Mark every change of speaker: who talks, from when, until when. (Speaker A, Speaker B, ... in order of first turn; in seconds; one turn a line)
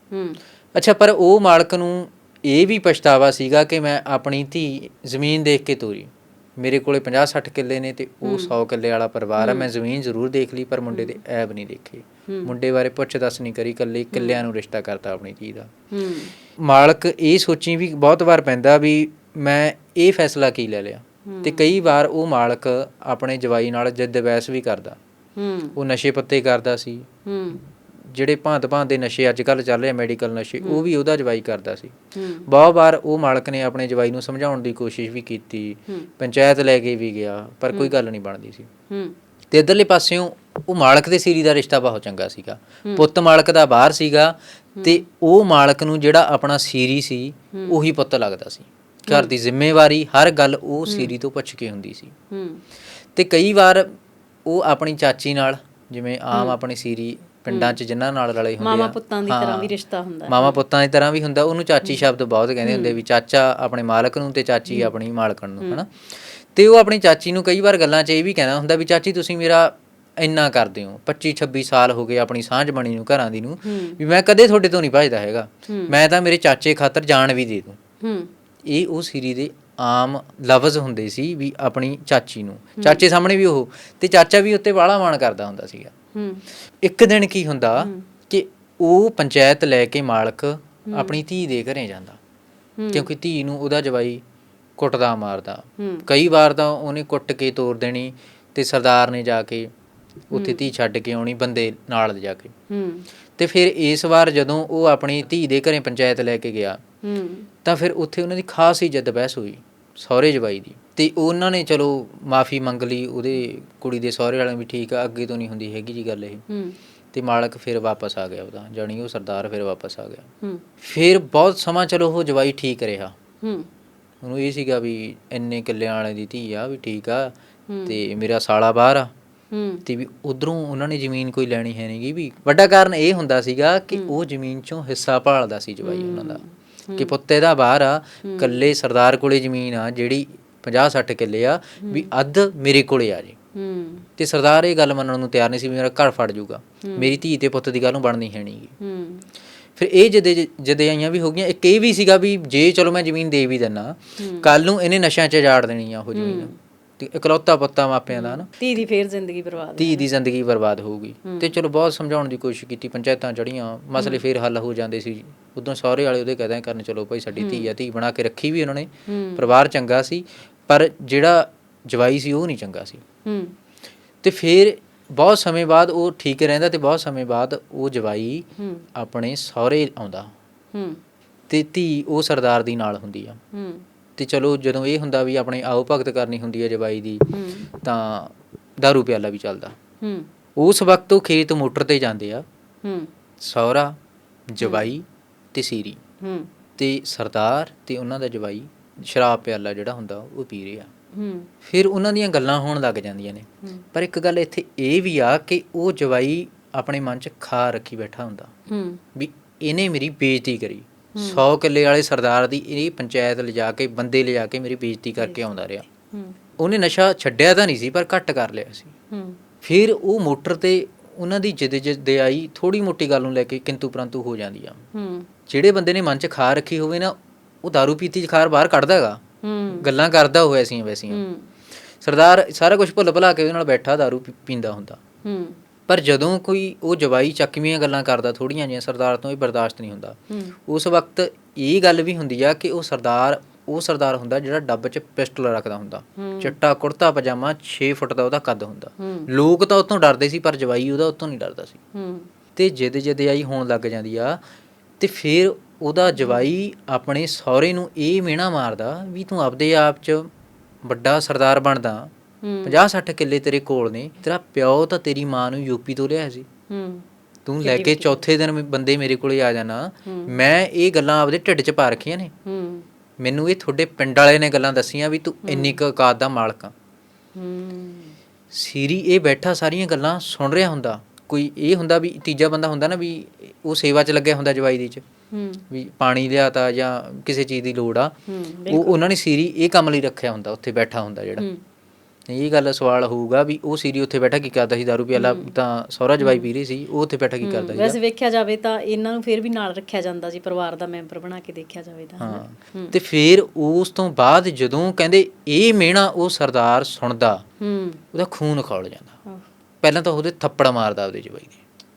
Speaker A: 0.1-0.4
Speaker B: 0.8-15.7
Speaker A: 8.2-8.5
Speaker A: 9.4-9.7
Speaker A: 10.9-11.2
Speaker A: 12.3-12.5
Speaker A: 14.1-14.4
Speaker A: 15.9-16.3
Speaker B: 16.6-25.0
Speaker A: 21.3-21.7
Speaker A: 25.4-25.8
Speaker B: 25.8-38.7
Speaker A: 27.2-27.6
Speaker A: 32.1-32.5
Speaker A: 38.9-39.2
Speaker B: 39.5-52.1
Speaker A: 44.8-45.0
Speaker A: 49.1-49.3
Speaker A: 50.9-51.1
Speaker A: 52.3-52.6
Speaker B: 53.1-53.9
Speaker B: 54.5-59.7
Speaker A: 56.3-56.6
Speaker A: 57.5-57.8
Speaker A: 58.6-60.6
Speaker B: 60.3-77.8
Speaker A: 62.6-63.0
Speaker A: 64.7-64.9
Speaker A: 73.6-74.0
Speaker A: 75.7-76.0
Speaker A: 78.0-78.3
Speaker B: 78.7-85.9
Speaker A: 82.8-83.0
Speaker A: 86.2-86.4
Speaker B: 86.8-92.2
Speaker A: 87.8-88.1
Speaker A: 90.9-91.2
Speaker A: 92.8-93.1
Speaker B: 92.9-94.2
Speaker B: 94.8-99.7
Speaker A: 95.8-96.1
Speaker B: 100.3-102.5
Speaker A: 100.3-100.7
Speaker A: 102.7-103.1
Speaker B: 103.4-106.8
Speaker A: 107.0-107.5
Speaker B: 107.6-116.4
Speaker A: 116.5-116.8
Speaker B: 117.1-120.3
Speaker B: 120.8-123.2
Speaker A: 123.4-123.7
Speaker B: 124.2-127.3
Speaker A: 127.7-128.0
Speaker B: 127.9-129.1
Speaker A: 129.5-129.8
Speaker B: 129.9-136.4
Speaker A: 135.8-137.1
Speaker B: 136.9-143.4
Speaker A: 138.2-138.7
Speaker A: 141.8-142.1
Speaker A: 143.6-144.1
Speaker B: 144.2-148.7
Speaker A: 146.8-147.2
Speaker A: 148.8-149.3
Speaker B: 149.8-158.5
Speaker A: 154.2-154.5
Speaker A: 156.1-156.6
Speaker A: 158.1-160.1
Speaker B: 159.8-173.0
Speaker A: 161.2-161.5
Speaker A: 164.0-164.2
Speaker A: 167.4-167.7
Speaker A: 169.1-169.4
Speaker A: 173.2-173.6
Speaker B: 174.2-180.3
Speaker A: 178.6-178.9
Speaker A: 180.7-181.0
Speaker B: 181.5-183.4
Speaker A: 183.5-183.8
Speaker B: 184.2-189.8
Speaker A: 187.3-187.7
Speaker A: 190.0-190.3
Speaker B: 190.6-192.4
Speaker A: 192.8-193.1
Speaker B: 193.4-194.0
Speaker B: 194.5-196.0
Speaker A: 194.6-194.9
Speaker A: 196.2-196.5
Speaker B: 196.8-200.9
Speaker A: 201.1-201.5
Speaker B: 201.6-208.5
Speaker A: 208.7-209.0
Speaker B: 209.2-215.9
Speaker A: 211.2-211.4
Speaker A: 215.2-216.4
Speaker B: 216.6-218.9
Speaker A: 219.1-219.4
Speaker B: 219.6-224.8
Speaker A: 224.9-225.3
Speaker B: 225.5-231.2
Speaker A: 229.4-229.9
Speaker A: 231.1-231.5
Speaker B: 232.0-235.0
Speaker A: 235.2-235.6
Speaker B: 235.9-251.8
Speaker A: 240.3-240.6
Speaker A: 246.2-246.6
Speaker A: 249.0-249.3
Speaker A: 251.9-252.3
Speaker B: 252.6-254.4
Speaker B: 255.0-260.3
Speaker A: 256.1-256.5
Speaker B: 260.9-262.1
Speaker A: 262.4-262.8
Speaker B: 262.6-266.5
Speaker A: 266.7-267.1
Speaker B: 267.4-272.3
Speaker A: 267.6-268.2
Speaker A: 270.1-270.4
Speaker A: 272.4-272.9
Speaker B: 273.2-276.7
Speaker A: 275.4-275.8
Speaker A: 277.4-278.2
Speaker B: 278.5-285.0
Speaker A: 285.3-285.6
Speaker B: 285.7-288.1
Speaker A: 288.3-289.0
Speaker B: 288.7-291.5
Speaker A: 291.4-291.6
Speaker B: 292.3-298.0
Speaker A: 295.1-295.5
Speaker A: 296.2-296.5
Speaker A: 297.4-303.0
Speaker B: 302.2-307.4
Speaker A: 307.6-308.0
Speaker B: 308.1-309.2
Speaker B: 309.8-311.6